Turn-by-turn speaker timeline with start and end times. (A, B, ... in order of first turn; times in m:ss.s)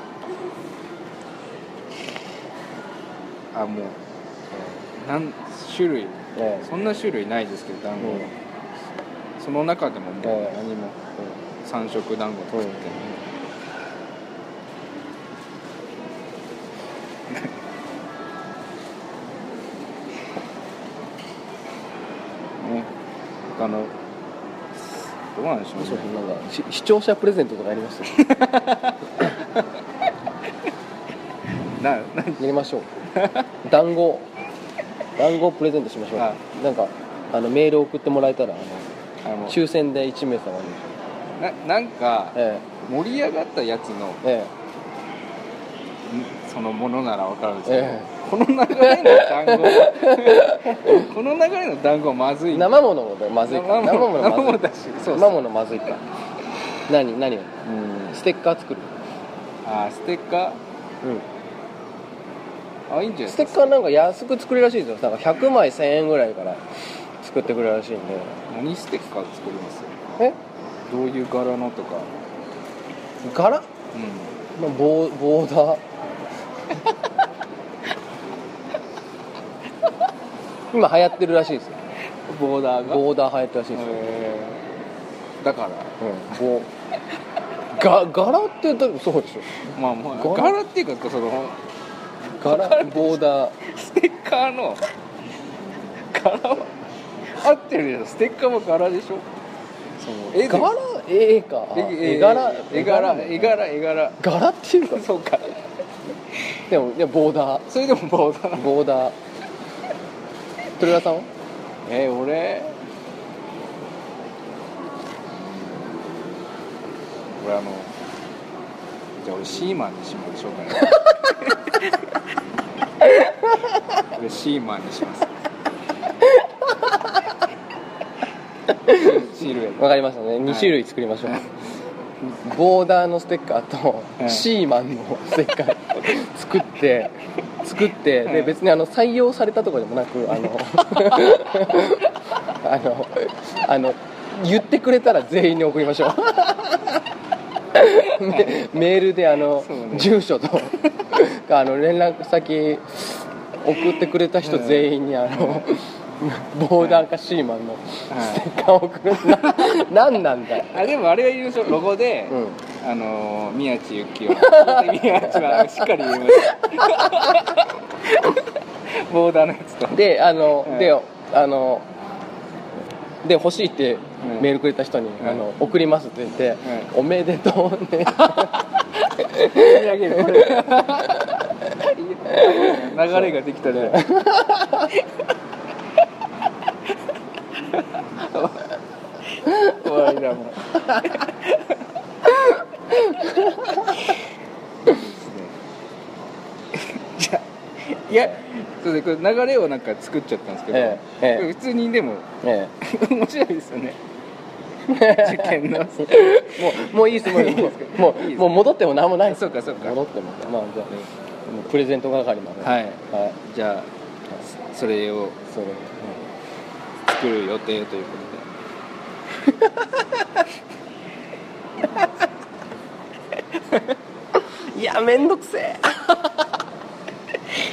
0:03.5-0:04.0 A
0:05.0-0:08.3 A
0:06.4-0:06.7 B
0:08.0-0:08.3 B
0:09.4-0:11.0 A
0:10.2-0:10.6 B
0:11.6-0:13.2 A
0:12.5-0:13.2 B
0:22.6-0:22.9 A
0:23.5-0:24.0 A
0:24.7-0:26.1 A
0:25.8-0:28.2 B
0:28.1-0:29.6 A
0:31.8-0:32.5 A
0:32.4-0:32.9 B
0:33.2-0:33.5 A
0:33.6-0:34.3 B
0:35.2-0:38.9 B
0:39.2-0:39.6 A
0:39.5-0:40.9 B
0:41.4-0:44.2 A
0:42.4-0:42.7 B
0:44.2-0:44.5 B
0:46.1-0:52.8 A
0:47.7-0:48.1 B
0:48.8-0:51.1 B
0:52.5-0:56.0 B
0:53.5-0:55.4 A
0:56.9-0:58.9 B
0:57.7-0:58.2 A
0:59.6-1:00.6 A
1:02.9-1:03.8 A
1:03.3-1:06.6 B
1:07.2-1:08.4 B
1:08.5-1:10.0 A
1:10.9-1:12.1 A
1:13.2-1:13.7 B
1:13.9-1:14.4 A
1:14.6-1:15.8 B
1:20.7-1:21.8 B
1:22.3-1:23.0 A
1:22.8-1:24.2 B
1:23.7-1:24.6 A
1:25.4-1:26.0 A
1:26.0-1:26.7 B
1:27.7-1:29.6 B
1:29.7-1:31.6 A
1:30.2-1:30.6 B
1:32.4-1:34.8 A
1:32.4-1:33.6 B
1:36.1-1:36.8 A
1:37.3-1:39.2 A
1:40.0-1:40.7 A
1:40.4-1:43.6 B
1:41.7-1:44.2 A
1:44.2-1:45.1 B
1:44.9-1:45.7 A
1:46.7-1:47.7 B
1:47.7-1:48.8 A
1:48.6-1:49.2 B
1:50.8-1:51.3 B
1:51.8-1:52.8 A
1:55.3-1:56.2 A
1:57.4-1:57.9 A
1:59.2-2:02.0 A
2:04.0-2:05.3 A
2:08.9-2:11.4 B
2:09.0-2:09.9 A
2:10.5-2:10.8 A
2:12.2-2:22.1 B
2:14.2-2:14.4 A
2:18.3-2:18.6 A
2:22.6-2:27.0 B
2:27.8-2:40.8 B
2:29.5-2:30.2 A
2:34.4-2:35.7 A
2:38.1-2:38.5 A
2:39.2-2:39.8 A
2:40.6-2:50.0 A
2:42.3-2:42.6 B
2:44.3-2:47.2 B
2:49.9-2:51.9 B
2:50.6-2:50.9 A
2:53.2-2:58.6 B
2:54.2-2:54.5 A
2:55.2-2:55.5 A
2:56.6-2:56.9 A
2:58.2-3:04.1 A
2:59.2-3:01.3 B
3:02.3-3:05.0 B
3:07.7-3:08.7 A
3:09.3-3:12.3 A
3:13.0-3:14.2 A
3:13.1-3:13.9 B
3:14.8-3:15.6 A
3:16.7-3:22.3 A
3:20.7-3:21.5 B
3:22.4-3:22.7 B
3:22.8-3:24.0 A
3:24.9-3:30.9 B
3:24.9-3:28.7 A
3:29.2-3:30.0 A
3:31.5-3:33.4 B
3:32.6-3:33.9 A
3:34.4-3:35.4 A
3:35.5-3:36.1 B
3:37.0-3:38.5 A
3:44.7-3:46.3 B